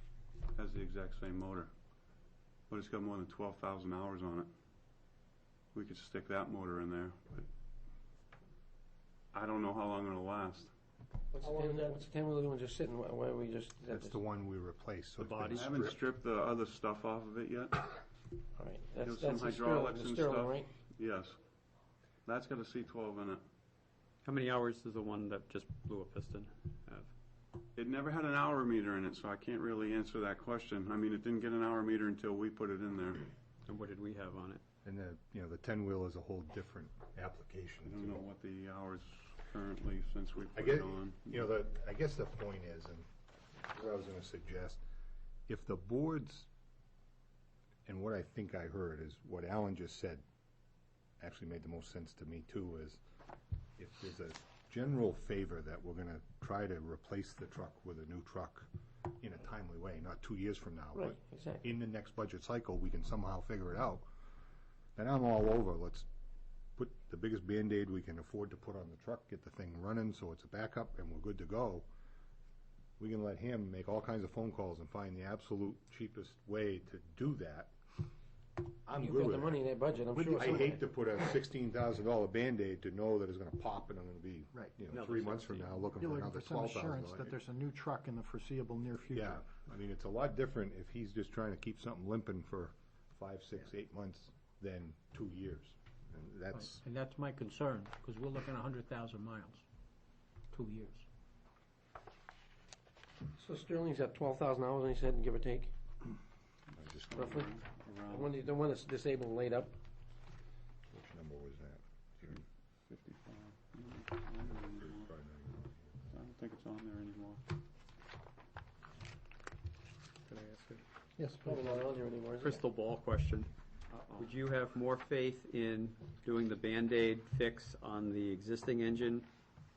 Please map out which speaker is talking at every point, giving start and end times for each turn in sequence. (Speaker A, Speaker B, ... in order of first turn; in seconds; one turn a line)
Speaker A: 0.5-1.7
Speaker A: 2.7-4.5
Speaker A: 5.7-7.5
Speaker A: 9.3-10.7
Speaker B: 11.3-14.2
Speaker C: 13.9-16.0
Speaker D: 15.2-15.7
Speaker A: 15.5-17.9
Speaker B: 18.6-20.7
Speaker A: 19.0-21.4
Speaker A: 22.2-23.4
Speaker D: 24.2-27.1
Speaker A: 27.8-33.3
Speaker D: 33.6-34.6
Speaker C: 34.8-38.2
Speaker A: 37.8-41.5
Speaker C: 40.5-43.1
Speaker C: 43.6-44.8
Speaker C: 45.5-46.5
Speaker C: 47.9-50.2
Speaker C: 51.2-53.0
Speaker C: 53.8-58.7
Speaker C: 59.2-64.1
Speaker B: 60.9-61.7
Speaker C: 65.0-66.1
Speaker C: 66.8-71.9
Speaker C: 73.0-77.7
Speaker C: 78.8-79.6
Speaker B: 79.0-80.8
Speaker C: 80.2-87.4
Speaker D: 84.9-85.8
Speaker E: 86.0-89.4
Speaker C: 89.1-96.8
Speaker F: 96.6-99.6
Speaker F: 100.5-101.0
Speaker B: 103.3-105.7
Speaker C: 106.8-107.2
Speaker A: 107.1-108.3
Speaker B: 107.1-109.7
Speaker C: 110.9-112.4
Speaker A: 112.9-115.1
Speaker C: 114.6-115.8
Speaker A: 116.1-117.4
Speaker D: 120.3-120.8
Speaker E: 121.2-121.8
Speaker B: 121.4-122.6
Speaker D: 122.4-123.5
Speaker A: 123.9-124.4
Speaker D: 124.1-129.3